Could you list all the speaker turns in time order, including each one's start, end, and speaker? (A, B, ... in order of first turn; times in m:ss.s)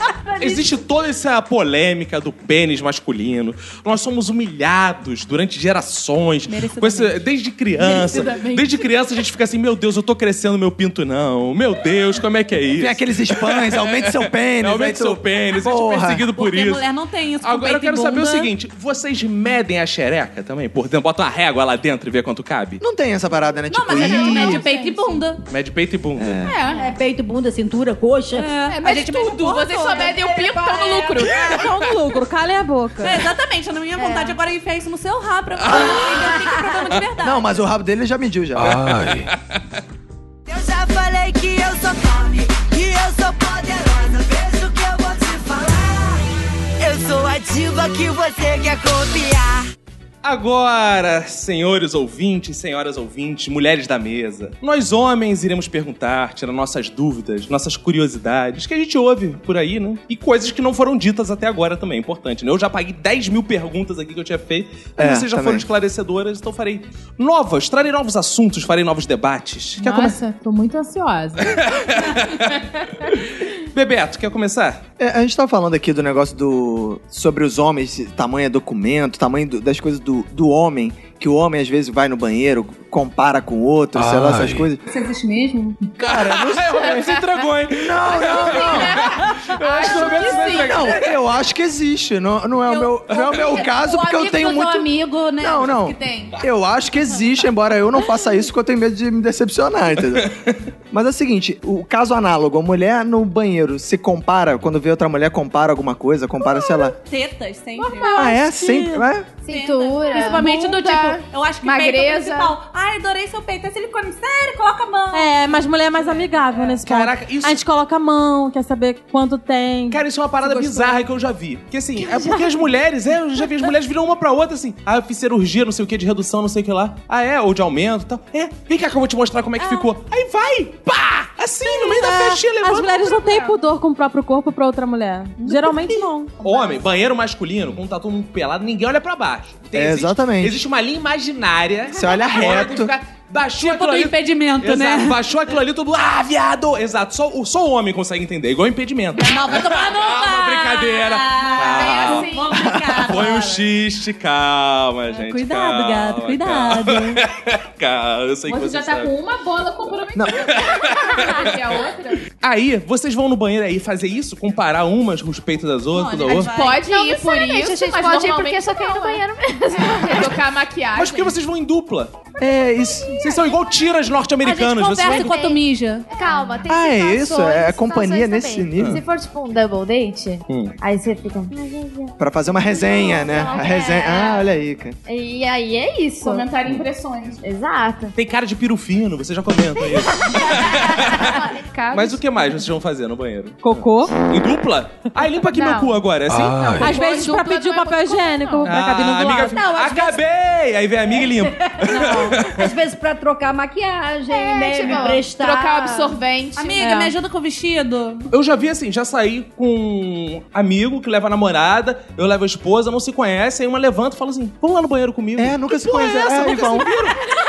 0:00.3-0:00.6 A
0:00.4-0:16.8 B
0:06.5-0:07.2 C
0:07.8-0:08.9 D
0:12.8-0:16.3 E
0:16.4-0:18.5 C
0:17.4-0:22.8 B
0:22.8-0:24.6 E
0:23.7-0:25.4 C
0:24.0-0:25.3 D
0:25.5-0:26.5 B
0:26.2-0:26.5 E
0:26.4-0:26.9 D
0:26.7-0:28.5 F
0:28.4-0:30.3 C
0:28.7-0:31.4 D
0:30.1-0:31.2 F
0:31.2-0:31.6 C
0:31.4-0:33.3 G
0:33.0-0:37.5 C
0:34.0-0:34.4 A
0:37.2-0:39.2 E
0:38.7-0:39.6 B
0:40.5-0:49.6 H
0:50.2-1:10.2 B
1:05.0-1:05.6 E
1:09.8-1:11.6 D
1:11.4-1:14.8 B
1:15.0-1:24.8 E
1:24.9-1:25.9 C
1:26.0-1:27.0 E
1:26.0-1:31.1 B
1:26.9-1:27.2 D
1:27.8-1:29.0 E
1:28.1-1:30.9 D
1:30.4-1:40.3 E
1:32.7-1:36.3 C
1:33.1-1:33.4 B
1:40.1-1:40.6 B
1:40.9-1:47.0 E
1:47.0-1:48.2 C
1:47.8-1:49.1 G
1:48.2-1:49.3 E
1:49.4-1:50.4 A
1:49.5-1:56.8 C
1:50.1-1:52.5 D
1:55.1-2:01.0 G
1:56.8-1:57.6 B
1:59.9-2:13.3 B
2:09.6-2:09.9 G
2:11.6-2:16.4 G
2:15.4-2:16.1 C
2:16.4-2:32.3 B
2:19.7-2:20.6 E
2:21.9-2:22.9 E
2:23.6-2:25.2 C
2:29.2-2:33.7 C
2:31.5-2:32.8 D
2:33.0-2:39.1 B
2:35.1-2:37.2 C
2:38.5-2:42.3 D
2:40.5-2:41.8 B
2:42.3-2:46.5 B
2:45.9-2:46.8 C
2:46.3-2:51.4 D
2:46.7-2:50.4 A
2:51.0-2:52.3 B
2:52.4-2:53.1 E
2:53.0-2:55.3 B
2:54.4-2:56.1 C
2:55.0-3:02.2 A
2:56.7-2:59.0 E
2:58.8-2:59.0 B
3:00.5-3:00.8 B
3:02.2-3:05.0 E
3:02.7-3:04.5 A
3:05.1-3:06.5 A
3:06.2-3:07.4 D
3:07.4-3:08.2 A
3:08.2-3:16.9 B
3:10.4-3:12.2 D
3:13.6-3:14.2 G
3:15.5-3:18.7 D
3:16.8-3:19.6 G
3:18.6-3:22.7 B
3:19.6-3:20.2 F
3:21.3-3:26.2 F
3:21.9-3:22.4 G
3:24.3-3:27.1 D
3:24.6-3:25.2 A
3:26.6-3:28.3 C
3:28.3-3:35.6 B
3:35.4-3:37.0 E
3:36.5-3:37.1 B